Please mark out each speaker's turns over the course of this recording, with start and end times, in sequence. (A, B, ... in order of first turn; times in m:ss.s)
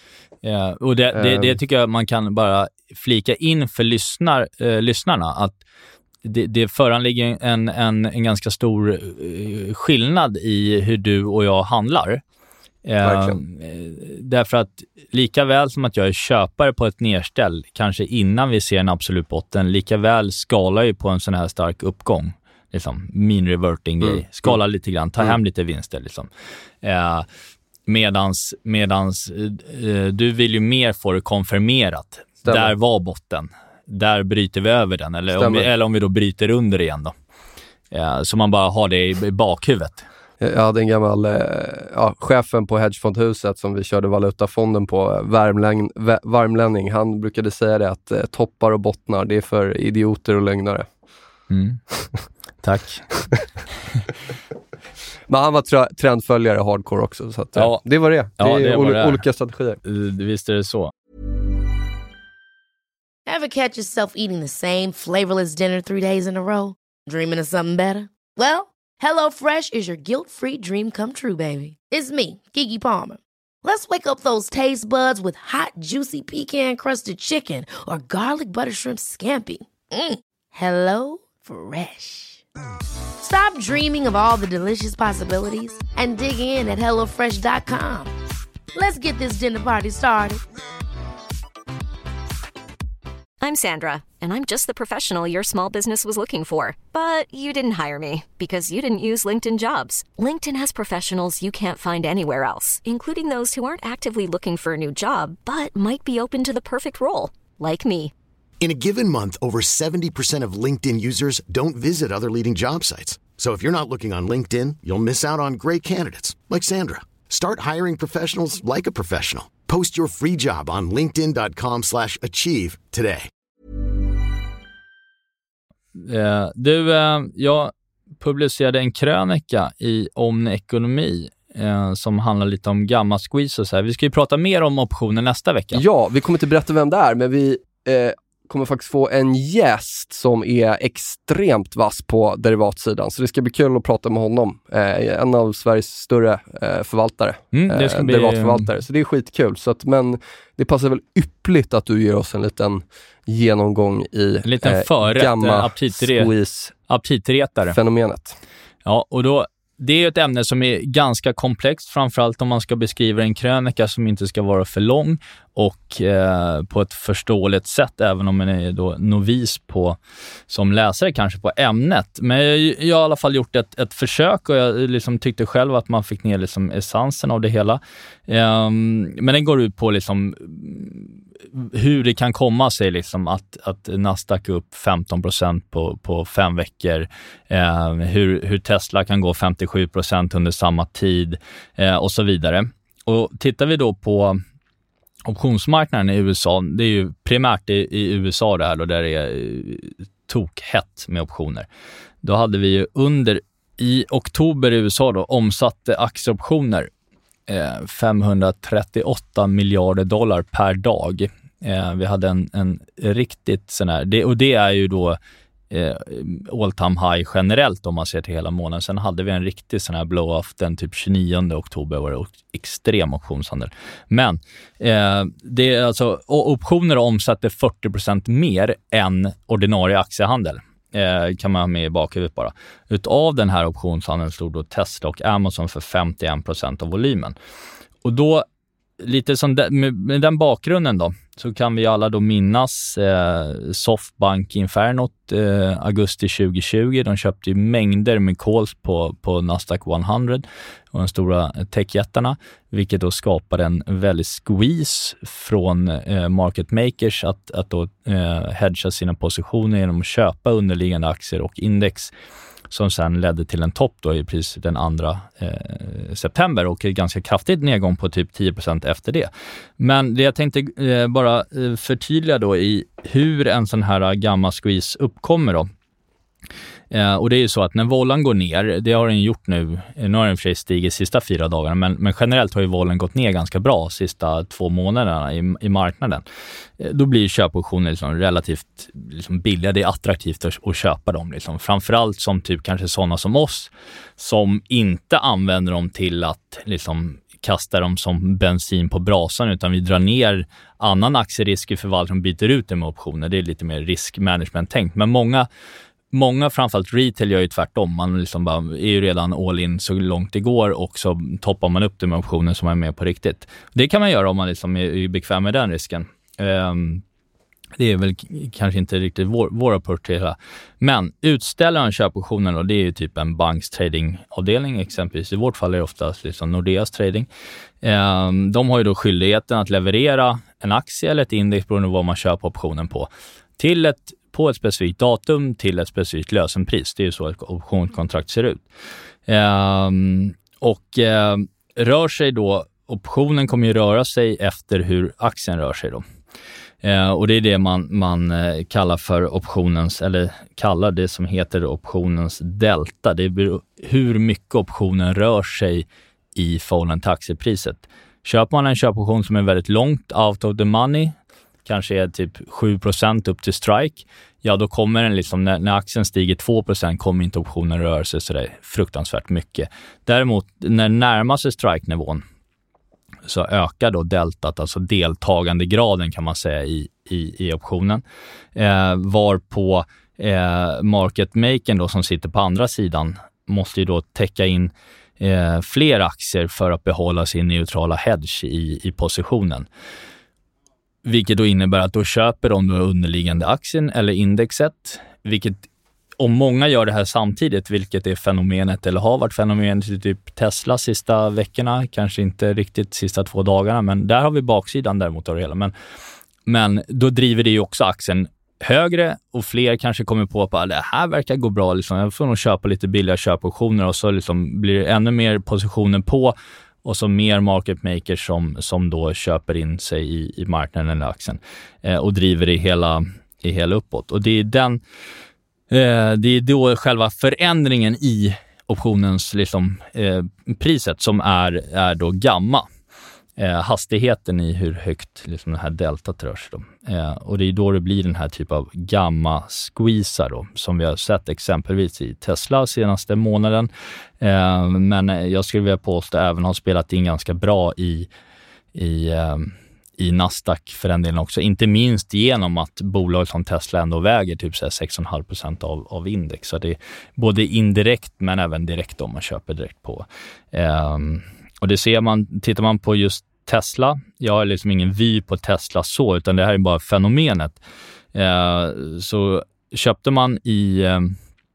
0:00.4-0:05.6 A
0:01.1-0:01.6 B
0:06.2-0:12.2 A
0:12.9-0:26.3 A
0:13.0-0:13.4 B
0:24.0-0:24.5 B
0:26.8-0:27.3 A
0:27.9-0:37.1 A
0:32.5-0:32.7 B
0:35.3-0:35.7 B
0:37.9-0:40.1 A
0:40.4-0:50.9 B
0:51.5-0:51.8 A
0:52.6-0:53.3 A
0:55.3-0:59.8 B
0:57.6-0:57.8 A
0:58.4-0:59.2 A
0:59.8-1:00.9 A
1:03.3-1:22.4 C
1:23.2-1:28.1 C
1:28.7-1:30.4 C
1:33.4-1:48.1 D
1:48.6-2:03.3 E
2:06.0-2:15.8 A
2:15.7-2:36.7 B
2:27.5-2:28.7 A
2:34.4-2:36.3 A
2:36.9-2:37.8 A
2:37.7-2:38.4 B
2:38.9-2:50.0 A
2:50.5-3:14.4 A
3:15.3-3:21.7 A
3:22.2-3:26.9 A
3:27.5-3:35.2 A
3:35.7-3:57.4 A
3:58.0-3:58.5 A
3:59.0-4:22.1 A
4:22.7-4:35.7 A
4:36.9-4:46.2 A
4:46.8-5:05.5 A
5:06.1-5:17.0 A
5:17.8-5:27.3 A
5:27.8-5:38.6 A
5:39.3-5:46.0 A
5:46.8-6:12.2 A
6:13.3-6:18.0 A
6:18.6-6:29.7 A
6:31.0-6:35.7 A
6:36.2-6:45.7 A
6:46.5-7:04.8 A
7:05.7-7:12.7 A
7:13.4-7:23.7 A
7:24.2-7:28.1 A
7:28.8-7:47.6 A
7:48.1-7:51.2 A